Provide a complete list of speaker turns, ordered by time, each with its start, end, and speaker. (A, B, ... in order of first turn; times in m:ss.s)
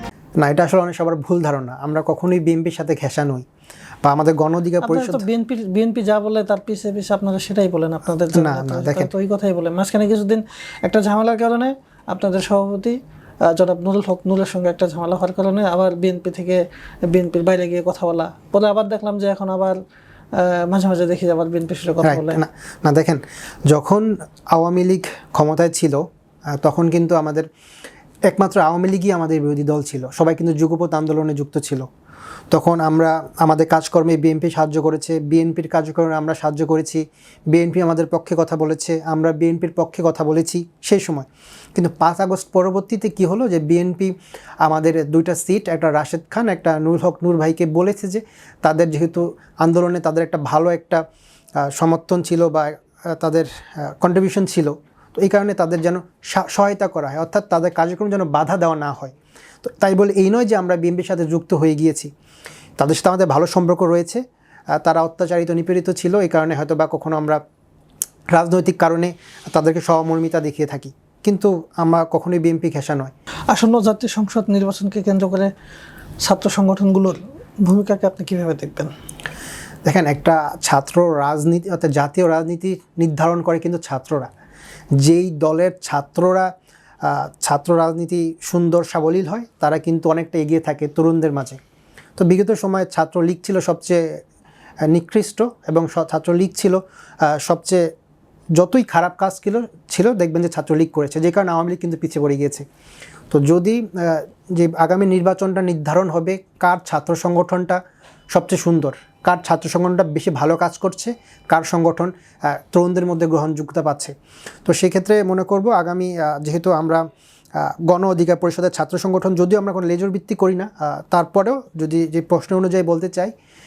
0:00.4-0:03.4 A
0:04.0-0:05.2 A
0:04.8-0:19.8 B
0:08.3-0:09.1 A
0:20.3-0:22.4 B
0:22.0-0:27.5 A
0:28.3-0:31.9 A
0:32.5-0:44.1 A
0:44.6-0:51.0 A
0:51.6-1:02.1 A
1:02.8-1:04.2 A
1:04.8-1:07.4 A
1:08.3-1:13.1 A
1:13.5-1:15.5 B
1:16.2-1:18.9 B
1:19.8-1:24.3 A
1:25.0-1:26.5 A
1:27.0-1:31.6 A
1:32.2-1:34.2 A
1:34.9-1:37.8 A
1:38.6-1:42.6 A
1:43.3-1:47.8 A
1:48.3-1:54.1 A
1:54.6-1:57.0 A
1:57.6-2:03.3 A